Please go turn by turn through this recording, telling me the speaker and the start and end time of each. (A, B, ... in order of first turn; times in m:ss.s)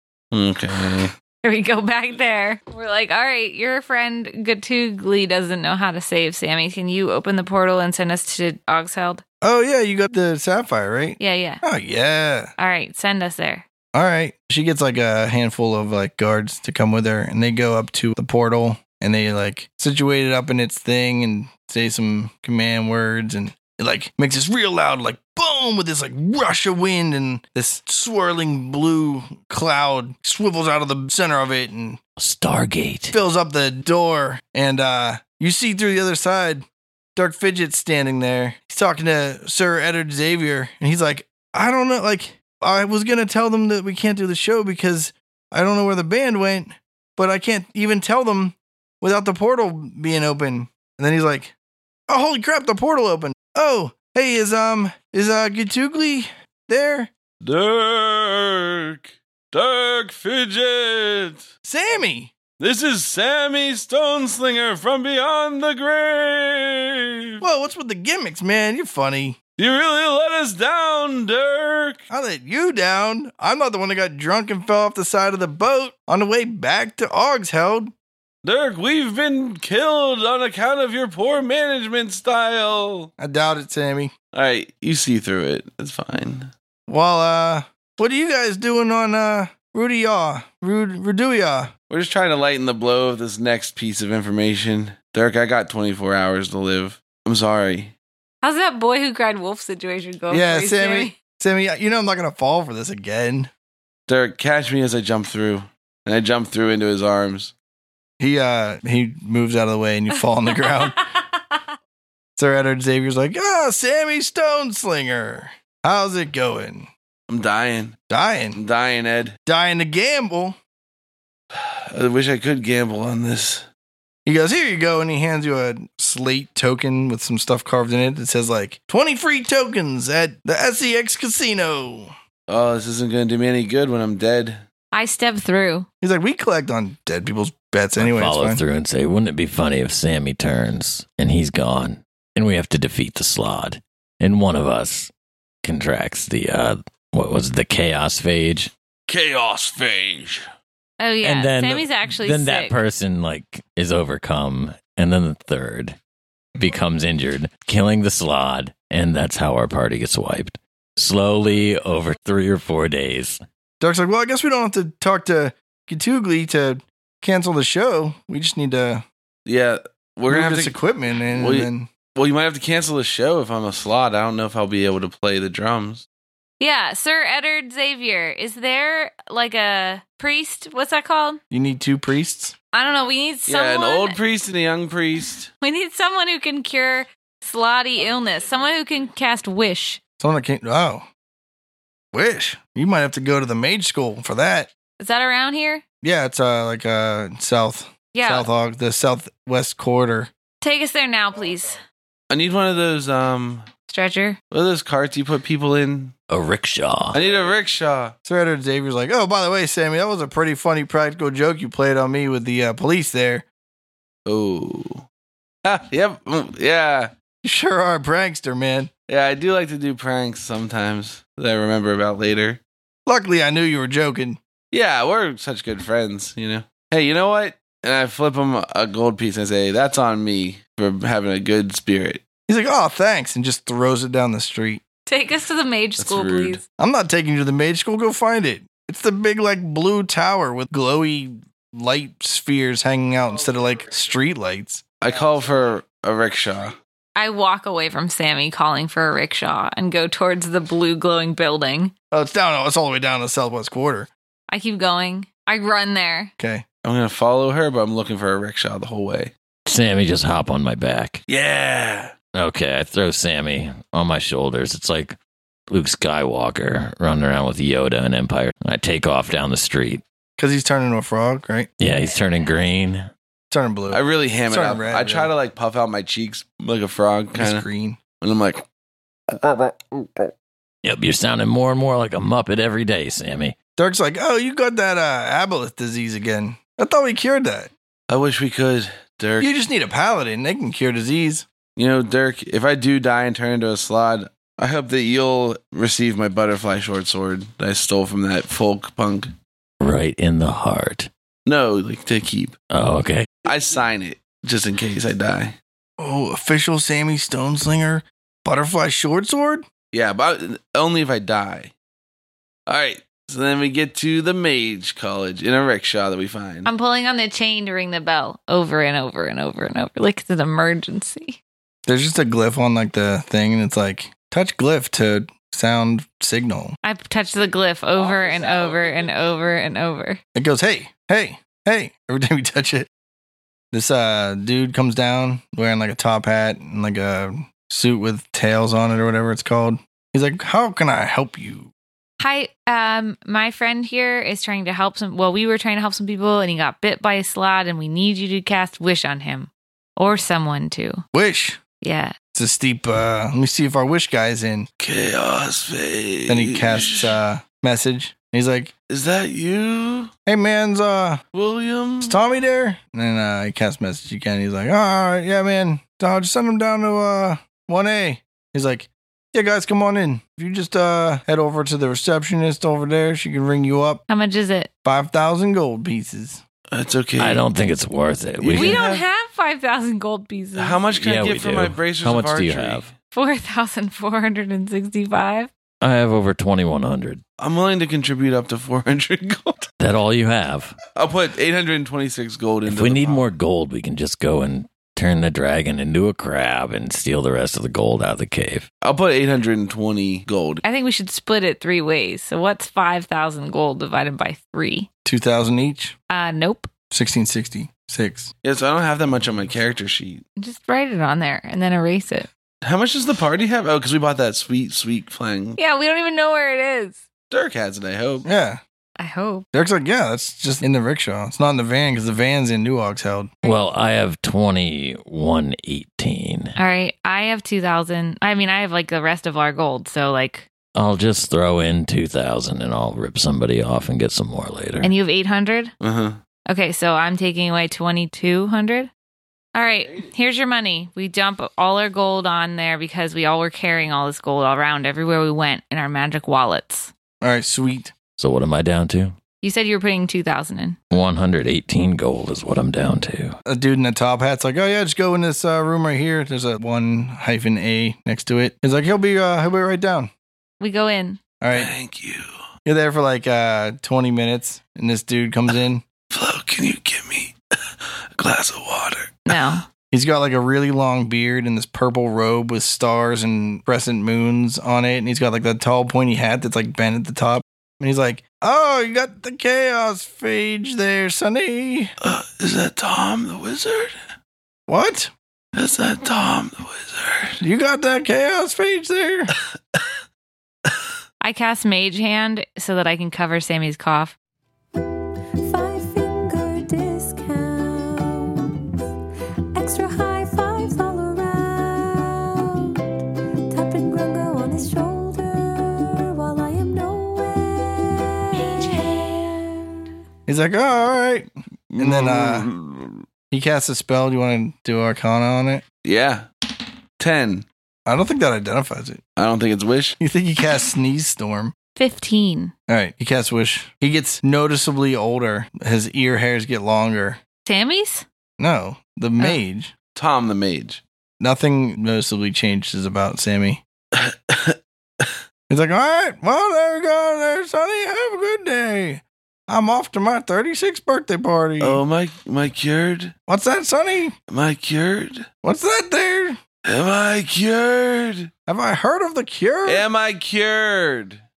0:00.3-0:01.1 A
0:01.4-0:09.2 B
0:09.4-0:12.5 C
0:11.2-0:11.6 B
0:12.6-0:13.6 B
0:13.9-0:32.0 C
0:32.2-0:33.2 D
0:33.1-0:51.5 C
0:52.1-0:57.1 C
0:57.4-1:01.5 A
1:01.6-1:02.3 C
1:02.6-1:07.4 A
1:07.4-1:09.4 C
1:09.6-1:12.0 A
1:12.1-1:17.9 C
1:18.4-1:23.1 A
1:23.2-1:24.1 C
1:24.3-1:26.5 A
1:26.9-1:31.7 C
1:31.9-1:37.9 A
1:38.4-1:41.1 B
1:40.3-1:43.5 C
1:44.1-1:47.5 A
1:48.2-1:51.1 C
1:52.4-1:56.9 C
1:57.3-1:58.0 A
1:58.1-1:58.6 C
1:58.6-1:59.4 A
1:59.4-2:00.6 C
2:01.5-2:03.6 A
2:04.2-2:12.1 C
2:12.5-2:14.6 A
2:14.9-2:15.9 B
2:16.0-2:18.6 C
2:18.0-2:25.1 D
2:25.6-2:28.7 D
2:29.1-2:30.4 A
2:31.0-2:32.8 B
2:31.2-2:36.0 D
2:36.6-2:43.4 D
2:43.8-2:49.0 C
2:49.4-2:50.8 A
2:50.3-2:51.9 C
2:51.3-2:56.0 A
2:56.6-3:01.4 B
3:01.5-3:02.5 C
3:02.7-3:04.2 B
3:03.5-3:05.5 A
3:05.6-3:10.0 B
3:10.2-3:11.1 C
3:12.1-3:14.7 C
3:15.0-3:15.8 B
3:16.0-3:20.3 C
3:18.1-3:18.5 B
3:20.6-3:21.8 B
3:22.3-3:23.6 A
3:23.9-3:24.4 B
3:24.5-3:26.1 A
3:26.3-3:27.2 D
3:27.1-3:28.1 A
3:28.2-3:33.4 C
3:34.2-3:35.0 A
3:35.6-3:37.1 A
3:37.4-3:38.9 C
3:39.1-3:42.6 A
3:43.0-3:44.4 C
3:44.7-3:52.2 A
3:52.5-3:54.8 C
3:55.1-3:56.6 B
3:56.0-3:56.6 A
3:56.8-4:04.8 C
4:05.0-4:06.8 A
4:07.2-4:11.9 B
4:12.1-4:14.1 C
4:14.5-4:16.3 B
4:16.4-4:16.6 C
4:16.8-4:19.3 A
4:19.6-4:21.2 D
4:21.3-4:22.1 A
4:22.3-4:25.2 D
4:25.7-4:30.0 D
4:30.4-4:31.7 C
4:31.8-4:33.1 D
4:33.5-4:35.3 C
4:33.9-4:37.6 A
4:37.3-4:38.0 C
4:38.2-4:38.6 A
4:40.8-4:43.6 D
4:43.8-4:47.7 C
4:48.1-4:49.5 A
4:49.4-4:51.4 C
4:51.8-4:59.3 A
4:59.8-5:01.1 D
5:01.4-5:02.6 A
5:02.7-5:03.3 D
5:03.4-5:05.5 A
5:06.0-5:09.7 C
5:09.9-5:11.7 A
5:12.7-5:16.7 A
5:16.6-5:21.4 B
5:21.8-5:26.8 C
5:26.8-5:30.2 B
5:30.3-5:32.9 C
5:33.7-5:41.7 C
5:42.2-5:51.0 B
5:51.1-5:51.6 C
5:51.8-5:52.1 B
5:52.3-5:54.7 C
5:54.8-5:57.1 A
5:56.3-5:58.7 C
5:58.9-6:00.1 A
6:00.2-6:01.2 C
6:01.3-6:02.2 A
6:02.0-6:14.0 C
6:14.1-6:14.7 B
6:14.8-6:16.4 C
6:16.7-6:17.4 A
6:17.2-6:18.8 D
6:18.4-6:19.0 A
6:18.5-6:20.8 B
6:20.6-6:22.9 A
6:21.0-6:22.9 D
6:23.1-6:25.5 B
6:25.8-6:27.2 D
6:27.4-6:29.7 A
6:29.8-6:30.8 D
6:30.9-6:33.3 A
6:32.6-6:38.6 D
6:38.8-6:40.6 A
6:40.6-6:44.9 B
6:45.0-6:45.9 C
6:46.1-6:46.7 B
6:46.9-6:48.3 C
6:48.4-6:50.2 A
6:50.4-6:52.3 B
6:52.6-6:55.6 A
6:55.6-6:57.0 B
6:57.3-6:58.2 A
6:58.2-6:58.6 C
6:59.0-6:59.4 B
6:59.5-7:03.3 C
7:03.4-7:06.5 D
7:06.6-7:10.5 B
7:10.7-7:14.9 D
7:14.8-7:15.7 B
7:15.8-7:16.2 A
7:16.5-7:18.9 B
7:19.5-7:26.9 B
7:19.7-7:20.1 A
7:27.2-7:27.9 C
7:28.2-7:29.2 D
7:29.4-7:30.8 B
7:30.9-7:33.4 D
7:33.4-7:40.1 C
7:40.6-7:41.2 B
7:41.4-7:41.7 C
7:41.5-7:42.3 A
7:42.6-7:45.8 C
7:46.1-7:47.3 A
7:48.2-7:49.4 A
7:49.3-7:49.6 B
7:49.9-8:01.9 C
8:02.0-8:03.9 A
8:04.7-8:05.1 C
8:05.5-8:07.4 A
8:07.4-8:09.3 C
8:11.2-8:14.1 B
8:15.4-8:18.6 E
8:19.5-8:22.9 E
8:23.5-8:29.8 E
8:30.3-8:32.5 C
8:31.7-8:33.0 A
8:33.3-8:35.6 C
8:35.8-8:36.2 A
8:37.0-8:37.4 A
8:37.8-8:39.0 C
8:39.2-8:40.0 A
8:40.0-8:41.5 C
8:41.8-8:42.5 B
8:42.7-8:47.2 C
8:47.4-8:48.0 B
8:48.4-8:49.7 C
8:50.0-8:50.8 A
8:51.2-8:53.6 C
8:53.9-8:55.1 A
8:55.5-9:01.8 C
9:01.6-9:03.1 A
9:03.3-9:04.2 C
9:04.3-9:05.3 A
9:05.4-9:06.4 C
9:06.6-9:08.3 A
9:08.5-9:09.8 C
9:09.6-9:11.2 A